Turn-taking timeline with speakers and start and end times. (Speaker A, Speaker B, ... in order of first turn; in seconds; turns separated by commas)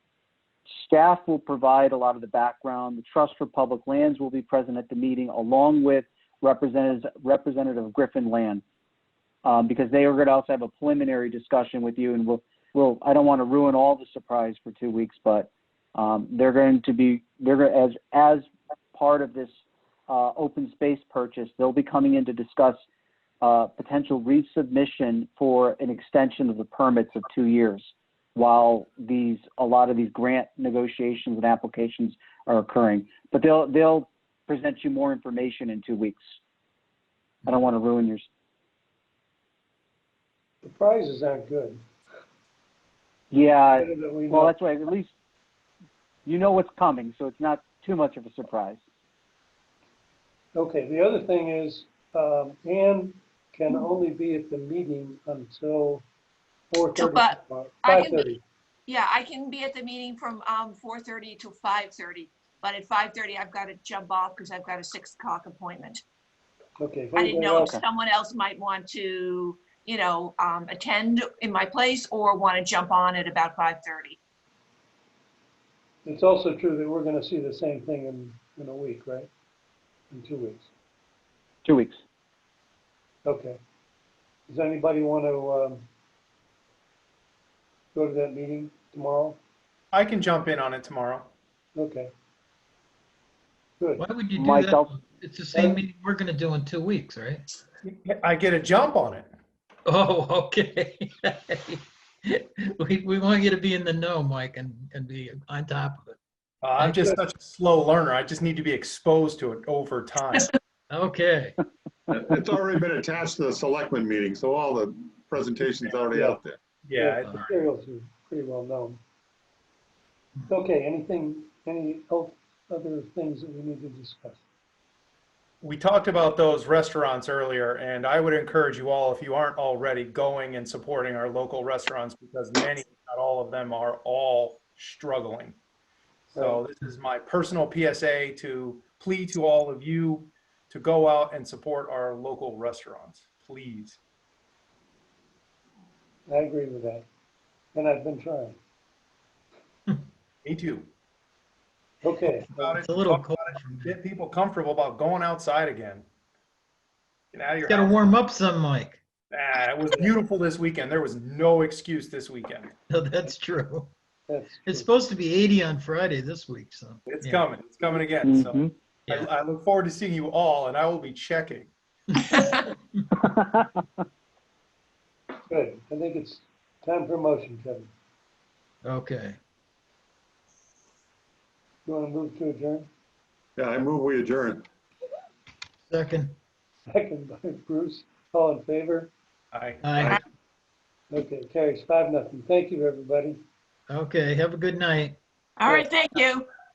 Speaker A: 0.8-8.6, Speaker A: 9.4-19.5, Speaker A: 20.1-22.8, Speaker A: 23.4-36.2, Speaker A: 37.5-38.3, Speaker B: 40.6-41.8, Speaker A: 43.3-45.1, Speaker B: 43.7-44.5, Speaker A: 46.2-48.8, Speaker B: 50.5-56.0, Speaker B: 56.7-58.4, Speaker C: 57.0-58.3, Speaker C: 58.9-66.0, Speaker B: 66.8-67.8, Speaker C: 67.2-74.2, Speaker B: 76.0-79.3, Speaker B: 80.1-80.7, Speaker A: 81.6-82.0, Speaker B: 83.2-83.6, Speaker B: 84.5-85.8, Speaker B: 87.9-89.4, Speaker D: 89.9-91.3, Speaker B: 91.7-92.1, Speaker E: 94.0-97.4, Speaker A: 94.4-94.9, Speaker B: 95.5-95.8, Speaker D: 97.8-99.3, Speaker E: 99.8-106.2, Speaker D: 106.6-110.5, Speaker E: 106.8-107.2, Speaker E: 110.9-111.6, Speaker F: 112.1-116.6, Speaker B: 116.1-116.4, Speaker D: 116.8-117.3, Speaker B: 117.0-119.0, Speaker B: 120.5-124.4, Speaker D: 125.6-135.6, Speaker D: 136.3-144.0, Speaker B: 136.3-136.6, Speaker B: 146.3-147.0, Speaker B: 147.7-148.6, Speaker D: 150.4-150.9, Speaker B: 152.0-152.7, Speaker D: 152.6-156.0, Speaker E: 152.7-153.9, Speaker D: 157.3-158.1, Speaker E: 157.7-159.0, Speaker D: 159.3-162.7, Speaker E: 162.9-163.9, Speaker B: 164.3-164.9, Speaker E: 164.7-167.4, Speaker D: 167.1-171.7, Speaker A: 168.2-168.7, Speaker B: 175.5-177.9, Speaker E: 178.8-179.4, Speaker B: 181.8-182.9, Speaker F: 183.6-184.7, Speaker E: 185.9-186.3, Speaker B: 186.9-189.1, Speaker D: 189.5-190.2, Speaker E: 189.8-190.2, Speaker B: 191.1-193.4, Speaker E: 193.9-195.2, Speaker C: 195.6-196.5